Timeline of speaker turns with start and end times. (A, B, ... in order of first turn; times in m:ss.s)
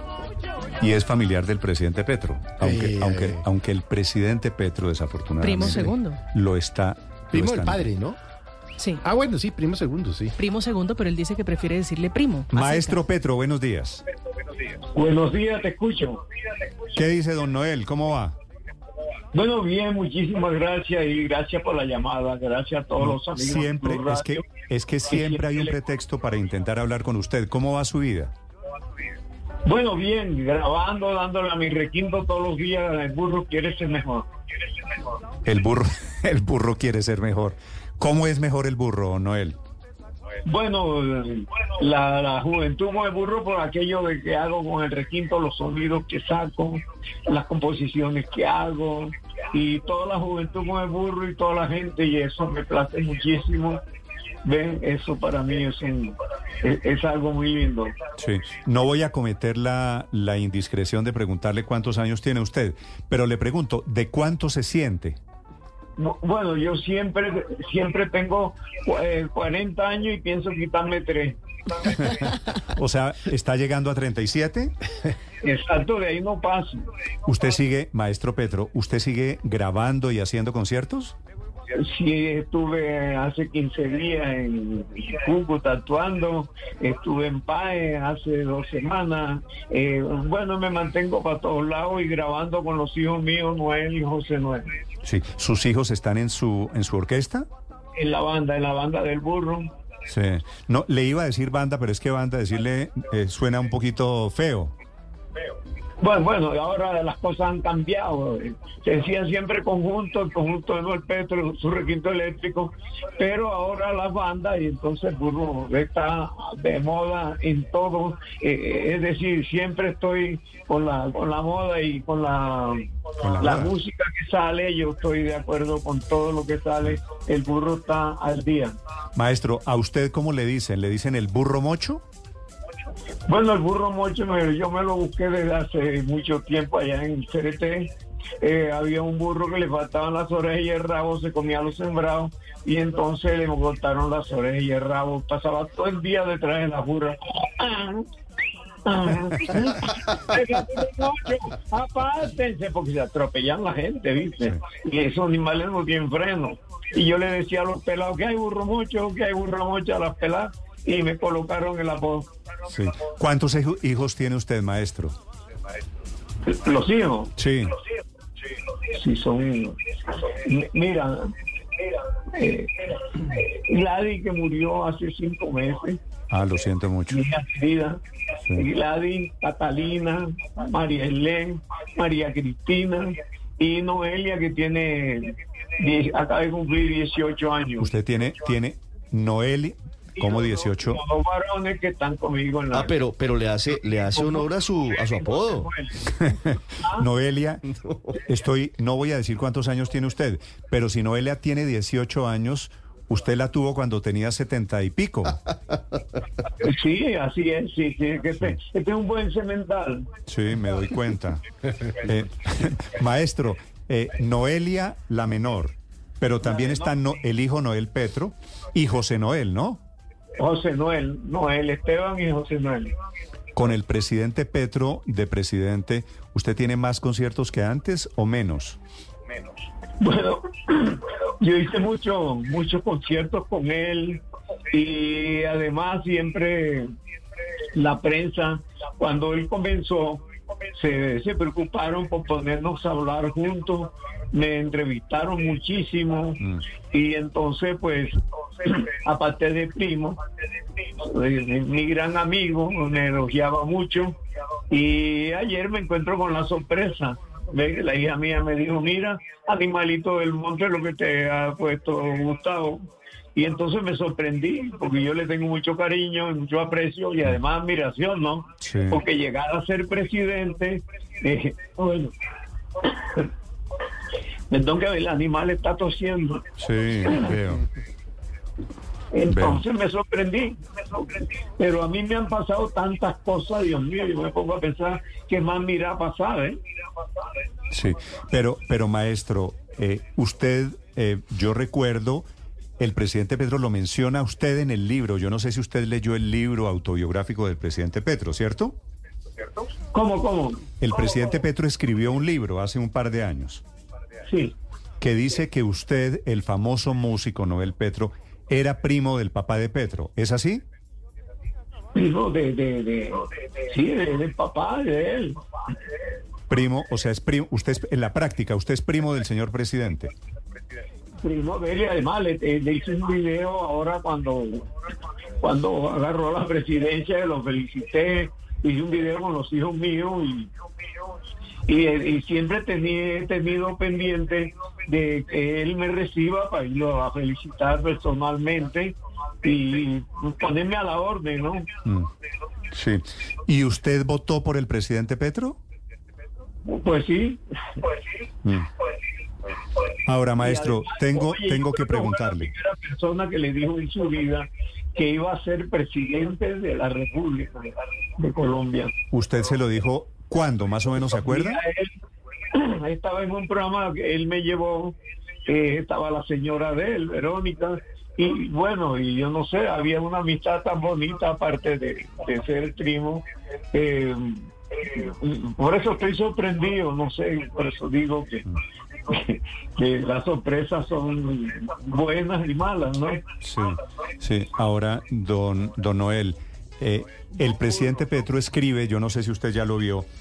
0:00.8-0:07.9 A
0:02.6-0:03.4 B
0:05.4-0:06.2 C
0:07.3-0:08.2 B
0:09.0-0:10.3 B
0:10.4-0:13.0 C
0:12.5-0:14.0 A
0:14.9-0:16.2 D
0:16.9-0:18.4 A
0:19.3-0:24.4 D
0:23.0-0:28.3 A
0:25.1-0:25.7 D
0:29.6-0:34.3 D
0:35.4-0:39.6 A
0:40.4-0:53.8 D
0:54.4-0:57.9 D
0:58.2-1:05.2 A
1:06.0-1:11.4 D
1:12.8-1:14.7 A
1:15.4-1:16.8 D
1:17.2-1:21.1 A
1:21.7-1:34.7 D
1:35.0-1:37.4 A
1:37.9-1:39.7 D
1:40.1-1:44.7 A
1:46.0-2:08.7 D
2:03.2-2:03.7 A
2:09.1-2:12.0 A
2:13.3-2:28.0 D
2:28.8-2:42.3 D
2:42.7-2:45.2 A
2:46.4-2:47.3 D
2:47.4-2:47.7 A
2:48.9-2:51.3 D
2:52.3-2:56.0 D
2:56.3-2:57.2 A
2:57.1-2:58.0 D
2:58.5-3:07.9 D
3:07.8-3:11.0 A
3:10.2-3:12.9 D
3:12.7-3:15.7 E
3:13.9-3:16.1 D
3:16.8-3:17.1 D
3:17.0-3:25.5 A
3:17.7-3:18.2 E
3:26.6-3:30.1 D
3:30.3-3:39.8 A
3:40.4-3:42.9 D
3:43.6-3:48.8 A
3:50.0-3:56.9 D
3:57.7-4:10.2 D
4:11.0-4:14.2 D
4:14.7-4:22.8 D
4:23.3-4:32.1 D
4:28.6-4:29.0 A
4:34.5-4:36.4 D
4:36.6-4:37.6 A
4:39.1-4:40.6 D
4:39.3-4:39.6 A
4:41.6-4:46.6 D
4:47.7-4:52.3 A
4:52.8-4:58.8 A
4:59.9-5:00.6 D
5:00.8-5:03.6 A
5:04.3-5:04.5 D
5:05.0-5:10.6 A
5:11.9-5:15.4 D
5:16.5-5:20.1 A
5:21.2-5:24.7 D
5:25.4-5:30.5 D
5:31.7-5:41.7 D
5:42.7-5:45.6 A
5:46.6-5:47.4 D
5:50.0-5:52.5 A
5:50.4-5:58.9 D
5:59.1-6:01.6 A
6:01.1-6:01.9 D
6:02.5-6:18.4 D
6:19.1-6:23.2 D
6:23.4-6:30.1 A